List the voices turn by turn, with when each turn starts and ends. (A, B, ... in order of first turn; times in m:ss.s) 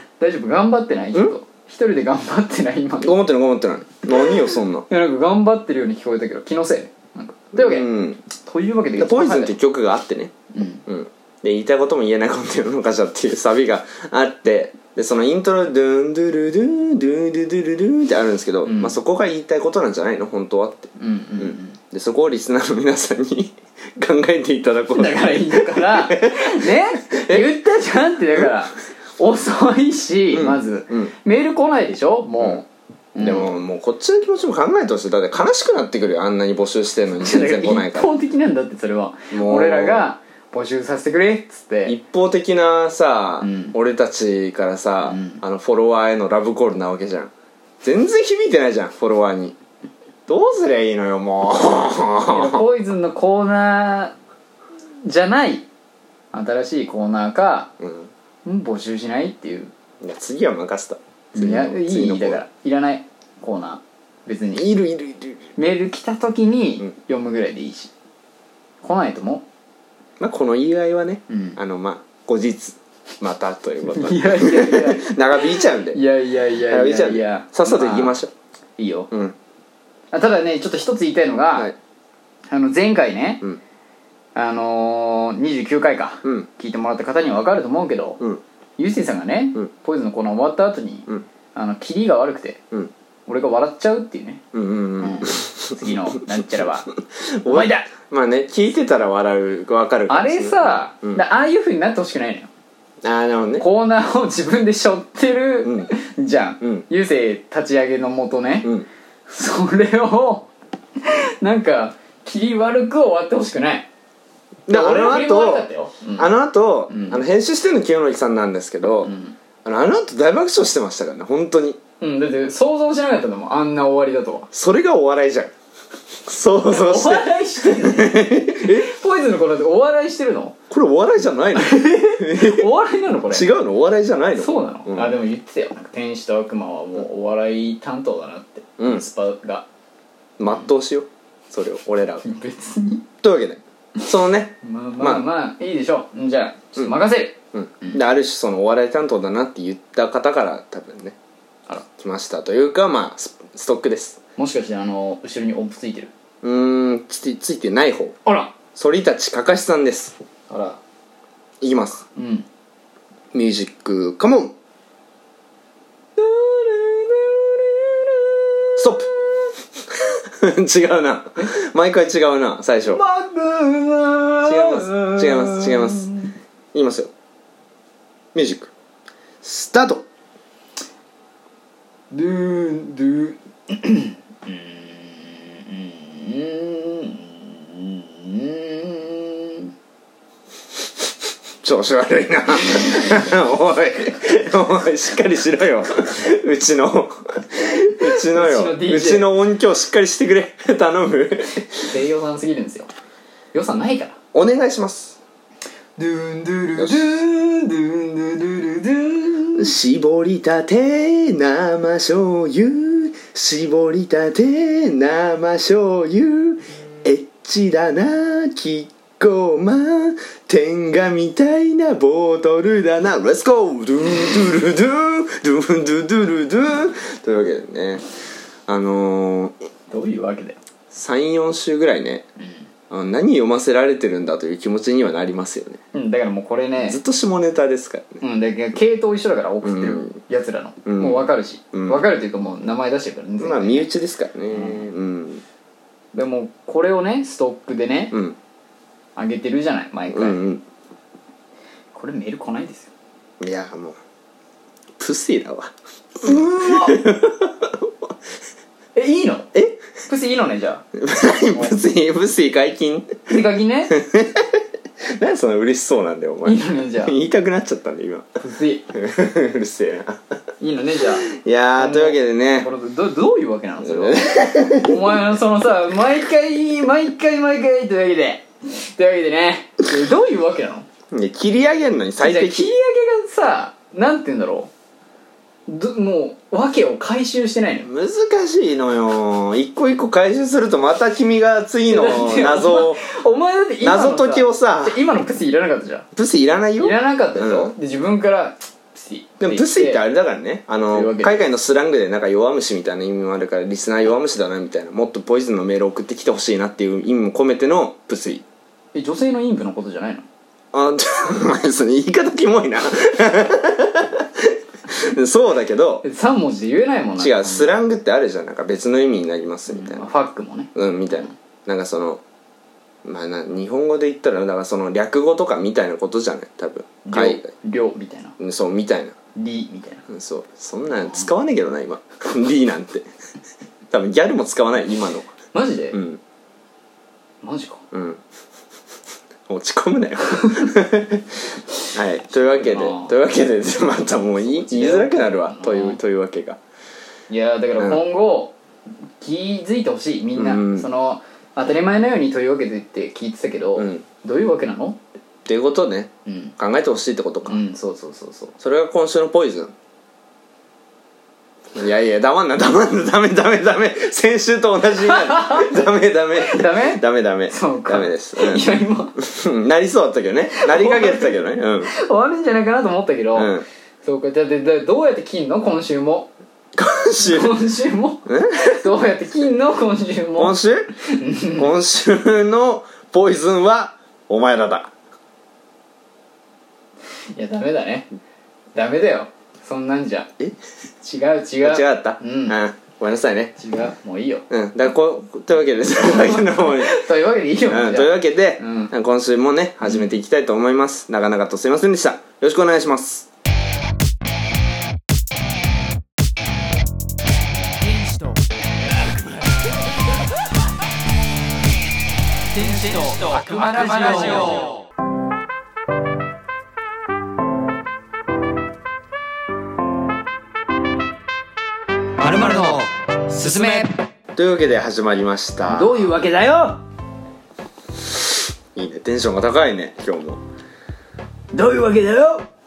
0:00.2-0:03.2 A
0:03.0-0:04.9 B
0:04.9-0:09.6 A
0:07.5-0:08.2 B
0:09.0-0:10.3 B
0:10.5-0:10.8 A
0:10.9-0:27.6 B
0:18.6-0:19.0 A
0:21.0-0:21.8 A
0:24.9-0:33.5 A
0:30.3-0:31.1 B
0:33.2-0:38.1 B
0:37.2-0:42.0 A
0:39.3-0:40.1 B
0:41.9-0:47.3 B
0:43.4-0:43.8 A
0:45.0-0:45.4 A
0:47.8-0:49.6 B
0:50.3-0:52.6 B
0:52.3-0:54.1 A
0:55.0-0:55.7 A
0:56.3-0:57.7 A
0:57.8-0:58.1 B
0:58.4-0:59.7 A
1:00.0-1:02.4 B
1:01.3-1:04.7 A
1:04.6-1:05.5 B
1:05.6-1:07.9 A
1:08.8-1:09.4 A
1:10.2-1:16.0 B
1:11.3-1:11.6 A
1:13.9-1:18.2 A
1:16.7-1:18.3 B
1:18.8-1:19.1 A
1:19.1-1:19.4 B
1:20.1-1:21.7 A
1:22.5-1:23.4 A
1:24.4-1:28.2 A
1:28.8-1:32.6 A
1:33.3-1:34.4 A
1:34.5-1:36.4 B
1:35.0-1:36.9 A
1:37.3-1:41.2 B
1:37.4-1:37.9 A
1:40.1-1:42.5 A
1:43.0-1:43.7 B
1:43.6-1:48.7 A
1:45.6-1:45.9 B
1:49.3-1:50.5 A
1:51.0-1:53.9 A
1:54.7-1:59.1 B
1:54.7-1:56.3 A
1:56.9-1:57.2 A
1:59.0-1:59.4 A
1:59.6-2:01.8 B
2:02.0-2:04.5 A
2:04.5-2:05.5 B
2:06.2-2:08.9 B
2:06.6-2:10.6 A
2:10.7-2:12.7 B
2:11.6-2:13.5 A
2:13.3-2:15.2 B
2:14.4-2:19.7 A
2:18.8-2:19.0 B
2:20.4-2:22.2 B
2:22.2-2:23.0 A
2:23.2-2:25.3 B
2:24.6-2:28.0 A
2:27.5-2:31.2 B
2:32.0-2:34.2 B
2:34.4-2:36.1 A
2:36.4-2:38.2 B
2:38.2-2:38.6 A
2:38.8-2:40.2 B
2:40.5-2:40.8 A
2:41.6-2:42.0 B
2:42.2-2:42.5 A
2:43.3-2:44.5 B
2:46.2-2:49.4 A
2:48.8-2:49.1 B
2:50.4-2:53.0 B
2:52.8-2:56.3 A
2:54.4-2:56.1 B
2:56.7-2:57.1 B
2:58.4-2:58.7 B
2:59.4-3:00.1 B
3:02.1-3:09.7 A
3:11.6-3:21.9 B
3:18.0-3:19.3 A
3:21.8-3:22.9 A
3:23.5-3:24.2 A
3:24.3-3:25.2 B
3:26.0-3:29.7 A
3:26.8-3:27.1 B
3:29.6-3:48.0 B
3:48.7-3:49.6 B
3:49.9-3:50.6 A
3:50.9-3:52.3 B
3:52.9-3:55.8 B
3:55.9-3:57.0 A
3:56.8-3:58.2 B
3:58.2-4:03.9 A
3:59.6-4:00.2 B
4:00.9-4:02.0 B
4:03.4-4:05.4 B
4:04.5-4:04.9 A
4:06.1-4:08.2 A
4:08.1-4:08.4 B
4:09.2-4:10.4 A
4:10.1-4:10.6 B
4:11.9-4:12.9 A
4:13.4-4:14.0 B
4:15.0-4:18.1 B
4:16.3-4:17.0 A
4:19.0-4:19.5 A
4:20.1-4:20.8 A
4:21.0-4:23.4 B
4:23.3-4:24.0 A
4:23.9-4:24.6 B
4:25.2-4:28.3 B
4:26.4-4:27.2 A
4:28.4-4:28.9 A
4:28.9-4:30.2 B
4:30.6-4:40.9 A
4:31.3-4:32.7 B
4:33.8-4:35.1 B
4:41.1-4:42.7 B
4:42.2-4:44.7 A
4:45.7-4:47.9 A
4:47.8-4:53.1 B
4:51.9-4:56.1 A
4:53.8-4:55.0 B
4:56.2-4:57.7 B
4:56.8-5:00.0 A
4:59.4-5:08.4 B
5:00.9-5:01.4 A
5:08.9-5:10.3 A
5:10.7-5:16.0 B
5:16.0-5:17.8 A
5:17.2-5:20.1 B
5:19.7-5:20.7 A
5:20.8-5:22.2 B
5:23.0-5:27.5 B
5:27.0-5:28.4 A
5:28.4-5:29.2 B
5:29.4-5:30.1 A
5:30.1-5:33.1 B
5:33.9-5:35.3 B
5:35.5-5:36.0 A
5:35.9-5:36.2 B
5:37.4-5:37.8 A
5:37.9-5:38.2 B
5:39.5-5:46.6 B
5:42.5-5:43.2 A
5:44.4-5:46.0 A
5:47.3-5:48.6 A
5:49.2-5:55.0 A
5:50.4-5:50.9 B
5:53.8-5:54.0 B
5:55.4-5:57.6 B
5:56.3-5:56.6 A
5:57.5-5:58.6 A
5:58.6-5:59.7 B
6:01.7-6:08.7 B
6:05.0-6:05.8 A
6:06.4-6:09.2 A
6:09.2-6:11.9 B
6:10.6-6:13.5 A
6:13.4-6:13.6 B
6:14.0-6:16.3 A
6:16.8-6:17.6 B
6:17.2-6:21.7 A
6:18.3-6:18.9 B
6:20.4-6:20.9 B
6:21.5-6:24.9 B
6:27.3-6:28.1 A
6:28.7-6:30.3 A
6:31.0-6:32.6 A
6:31.6-6:33.5 B
6:33.6-6:34.5 A
6:34.5-6:37.0 B
6:36.0-6:38.9 A
6:37.7-6:43.3 B
6:47.8-6:48.5 C
6:52.5-6:54.7 C
6:54.1-6:54.6 A
7:02.2-7:03.9 A
7:04.4-7:06.2 B
7:05.7-7:06.8 A
7:08.7-7:10.4 B
7:11.5-7:12.5 A